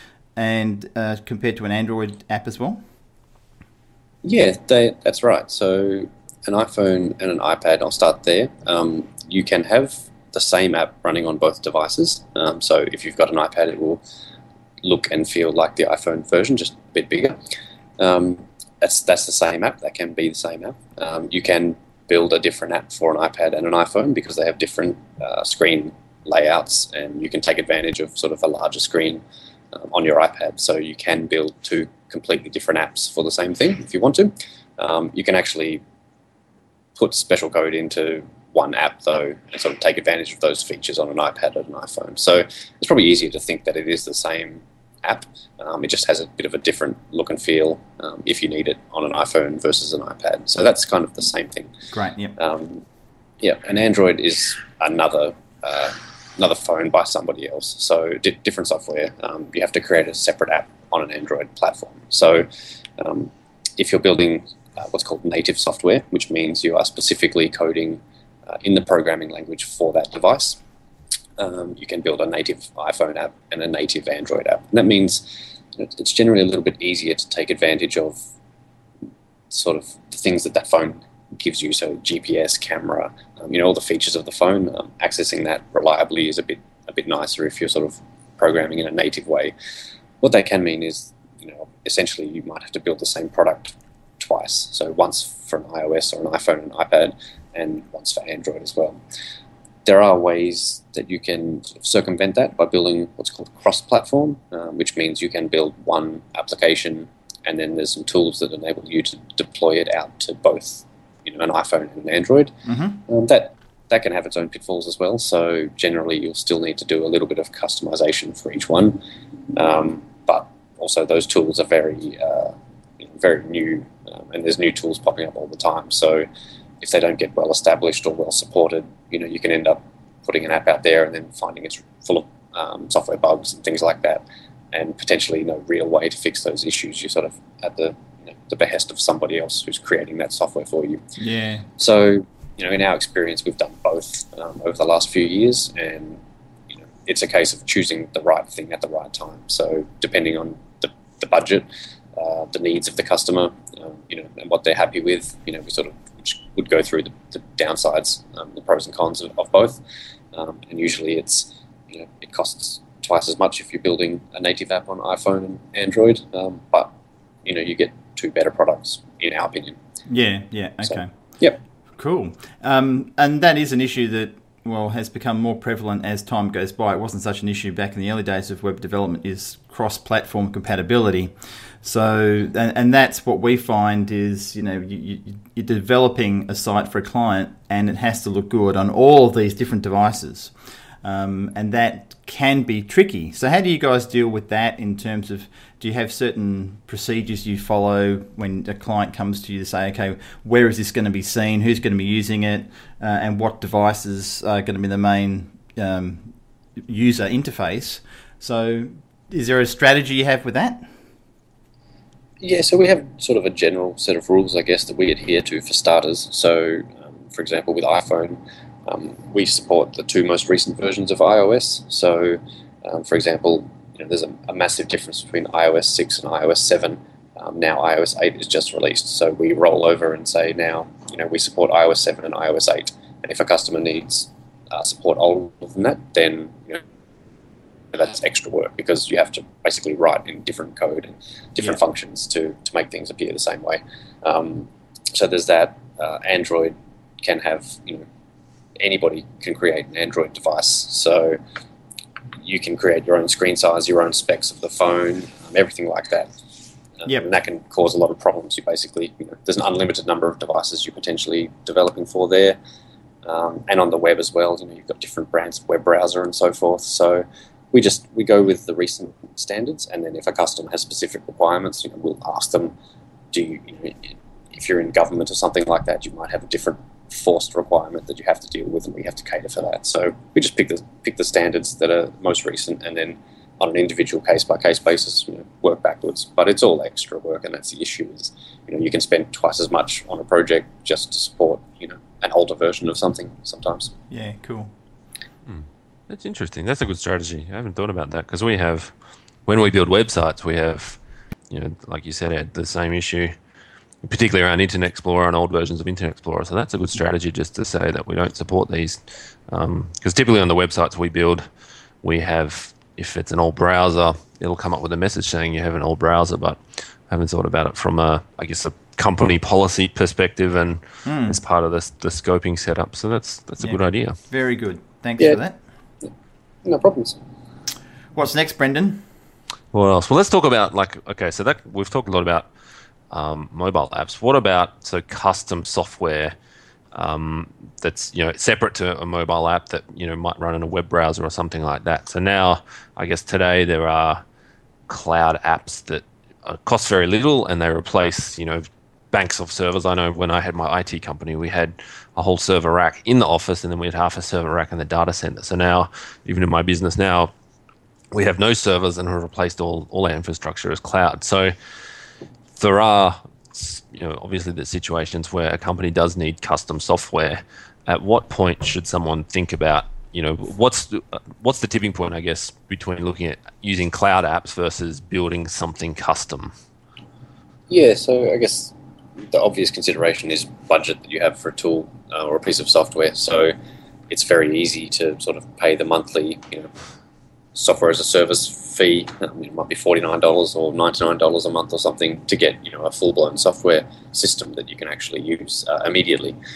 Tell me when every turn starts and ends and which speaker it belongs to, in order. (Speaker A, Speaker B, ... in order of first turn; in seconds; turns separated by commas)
Speaker A: 0.3-2.8, Speaker B: 4.2-14.0, Speaker B: 14.8-17.4, Speaker B: 18.0-35.8, Speaker B: 37.0-51.7, Speaker A: 51.9-52.4, Speaker B: 52.4-52.8, Speaker B: 53.4-70.6, Speaker B: 71.4-75.2, Speaker B: 75.8-78.2, Speaker B: 79.5-89.5, Speaker B: 90.2-99.0, Speaker B: 99.8-112.5, Speaker A: 112.7-113.0, Speaker B: 113.1-119.0, Speaker B: 119.5-126.2, Speaker B: 126.8-141.0, Speaker A: 141.2-141.7, Speaker B: 141.8-146.2, Speaker B: 146.7-159.8, Speaker B: 160.3-166.9, Speaker B: 167.4-169.8, Speaker A: 170.1-171.1, Speaker B: 170.8-171.6, Speaker A: 172.0-206.3, Speaker A: 206.8-210.9, Speaker B: 212.4-236.8, Speaker B: 237.9-248.1, Speaker B: 248.8-251.4, Speaker B: 252.4-256.3, Speaker B: 257.0-262.6, Speaker B: 263.2-272.7, Speaker B: 273.3-293.9, Speaker A: 294.1-294.7, Speaker C: 295.4-298.9, Speaker C: 299.4-301.0, Speaker C: 301.5-303.3, Speaker C: 304.0-311.4, Speaker C: 312.0-324.1, Speaker A: 321.0-321.4, Speaker A: 323.6-325.6, Speaker B: 326.6-327.2, Speaker A: 328.1-329.1, Speaker C: 329.7-332.5, Speaker C: 333.1-336.3, Speaker C: 336.9-344.2, Speaker C: 344.9-357.3, Speaker C: 358.1-361.5, Speaker C: 362.5-376.5, Speaker B: 377.7-378.7, Speaker B: 379.2-383.5, Speaker B: 384.1-386.7, Speaker B: 387.5-396.4